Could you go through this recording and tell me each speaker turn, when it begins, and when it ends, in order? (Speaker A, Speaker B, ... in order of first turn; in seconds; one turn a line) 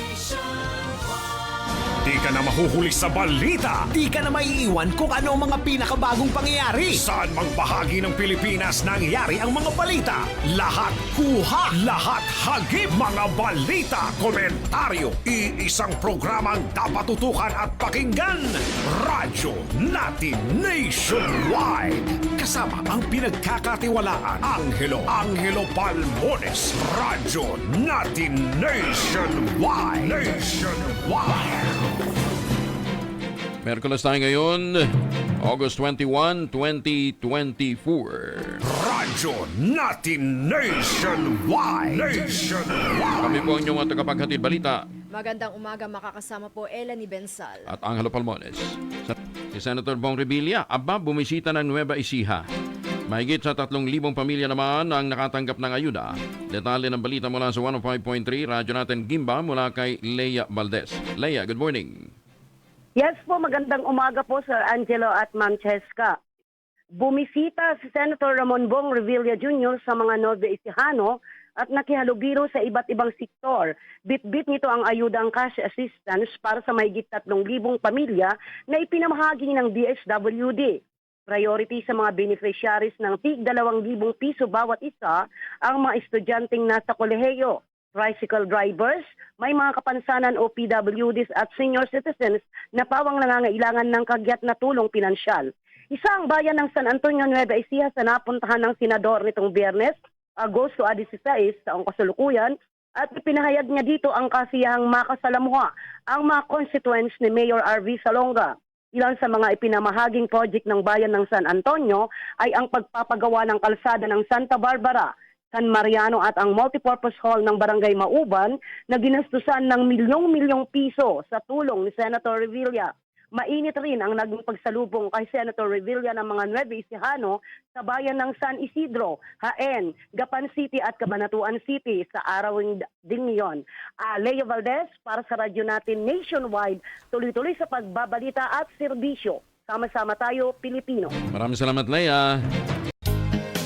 Speaker A: 2.0-3.9
Speaker B: 3.9-7.0
Speaker A: 6.9-31.6
Speaker C: 33.6-38.6
Speaker A: 38.6-43.3
Speaker C: 43.2-44.9
Speaker D: 45.1-47.7
Speaker C: 47.7-52.5
Speaker C: 53.1-62.1
Speaker E: 63.0-66.2
Speaker E: 67.0-141.1
Speaker C: 141.3-142.4